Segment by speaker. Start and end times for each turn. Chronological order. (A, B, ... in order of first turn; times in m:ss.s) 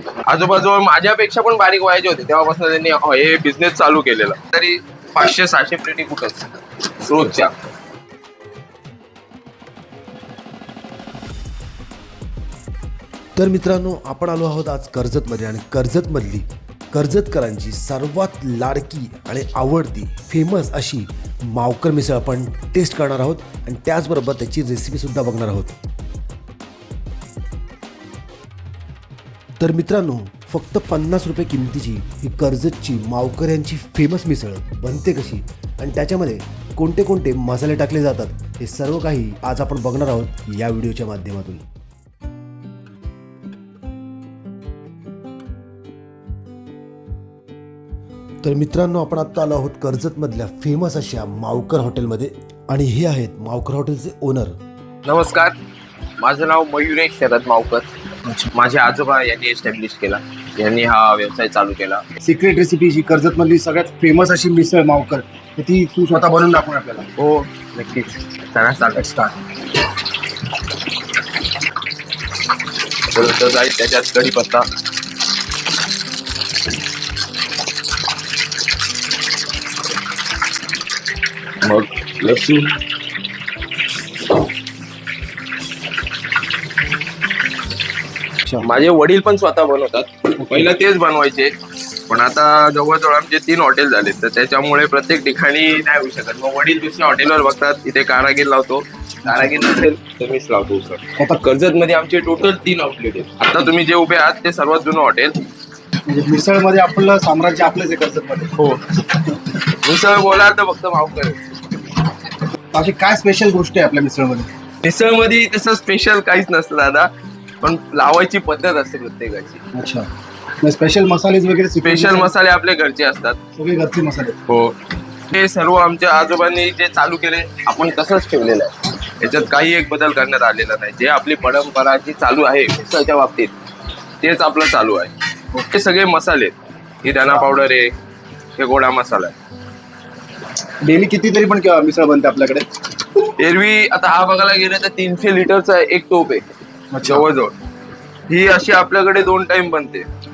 0:00.2-0:06.5 A
0:07.0-0:07.5 A
0:13.4-0:25.8 B
0:29.6-0:41.7 B
0:48.4-0:54.6 B
0:55.0-0:55.6 A
0:56.2-0:57.9 A
0:58.2-0:58.5 C
0:58.5-1:02.0 A
1:02.2-1:07.1 C
1:07.2-1:09.0 A
1:08.9-1:09.4 C
1:13.1-1:14.7 A
1:21.6-1:22.8 A
1:28.6-1:31.5 A
1:30.4-1:30.7 C
1:32.1-1:45.4 A
1:39.2-1:39.7 C
1:46.0-1:48.5 C
1:48.5-1:48.8 A
1:49.7-1:51.4 A
1:52.7-1:54.5 C
1:54.8-1:57.1 A
1:57.6-1:59.6 A
1:59.7-2:00.1 C
2:00.6-2:02.3 C
2:01.8-2:03.4 A
2:03.6-2:04.4 C
2:04.5-2:13.5 A
2:14.2-2:15.1 A
2:15.7-2:17.9 A
2:18.6-2:19.3 A
2:20.8-2:22.7 C
2:23.4-2:26.4 A
2:26.9-2:27.3 C
2:27.0-2:27.5 A
2:28.3-2:30.0 A